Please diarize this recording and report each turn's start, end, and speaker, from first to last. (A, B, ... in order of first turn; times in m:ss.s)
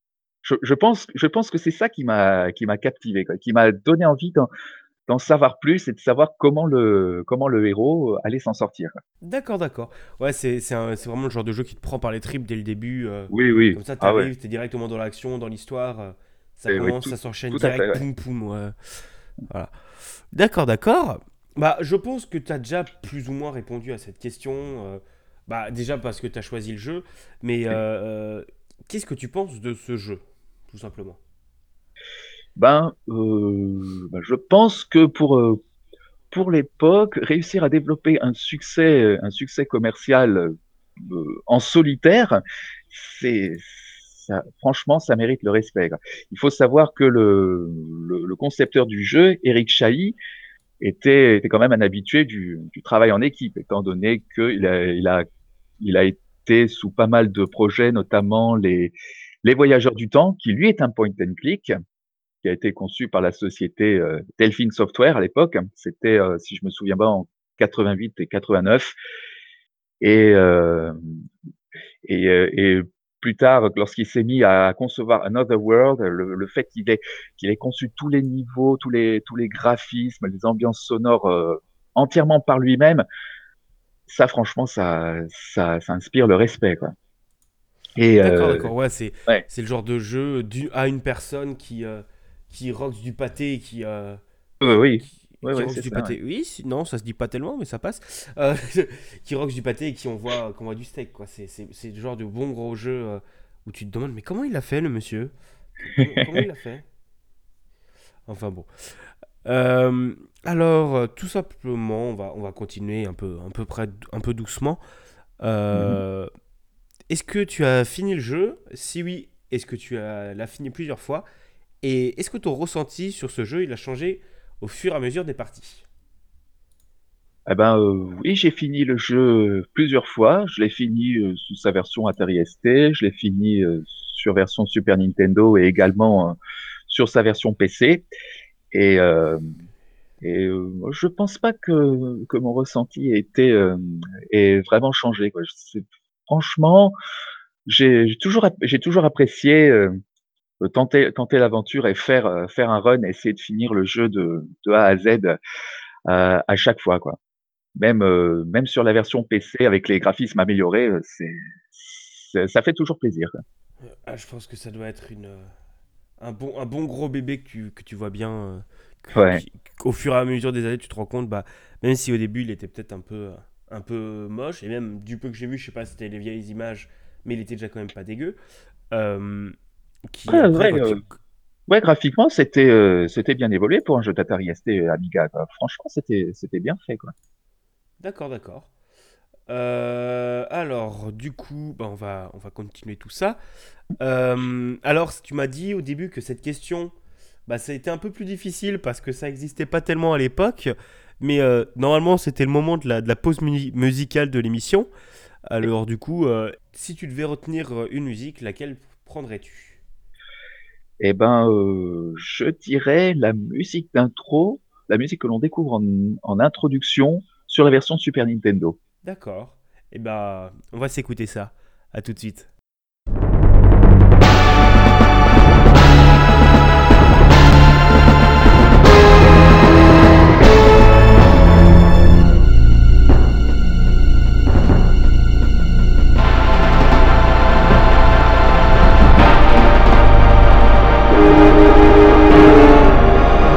0:00.4-0:04.5 A
0:05.1-0:08.9 A
0:09.2-0:18.7 B
0:13.3-0:14.3 A
0:16.7-0:18.0 A
0:19.5-0:19.7 B
0:20.3-0:31.2 B
0:32.6-0:35.6 A
0:36.3-0:42.4 A
0:42.9-0:50.2 A
0:50.8-0:55.2 A
0:55.8-1:01.7 A
1:02.4-1:09.0 A
1:10.0-1:11.1 A
1:12.0-1:23.0 A
1:24.1-1:26.9 A
1:28.0-1:28.7 A
1:28.2-1:45.3 B
1:34.6-1:36.2 A
1:45.9-1:46.9 B
1:48.3-1:48.7 B
1:49.4-1:54.8 B
1:55.4-1:56.3 B
1:55.7-1:56.0 A
1:57.1-2:01.2 B
2:01.8-2:05.9 B
2:07.5-2:18.1 A
2:18.7-2:19.4 A
2:20.2-2:27.0 A
2:27.7-2:30.0 A
2:30.6-2:35.4 A
2:36.1-2:37.2 A
2:37.8-2:43.3 A
2:43.8-2:45.5 B
2:46.2-2:58.4 B
2:49.1-2:49.4 A
2:58.9-2:59.6 B
3:00.1-3:01.1 B
3:00.3-3:01.0 A
3:01.7-3:07.1 A
3:08.0-3:08.7 B
3:09.5-3:13.4 B
3:14.0-3:16.9 B
3:17.5-3:24.9 B
3:25.5-3:29.8 B
3:31.0-3:38.8 A
3:39.0-3:42.5 B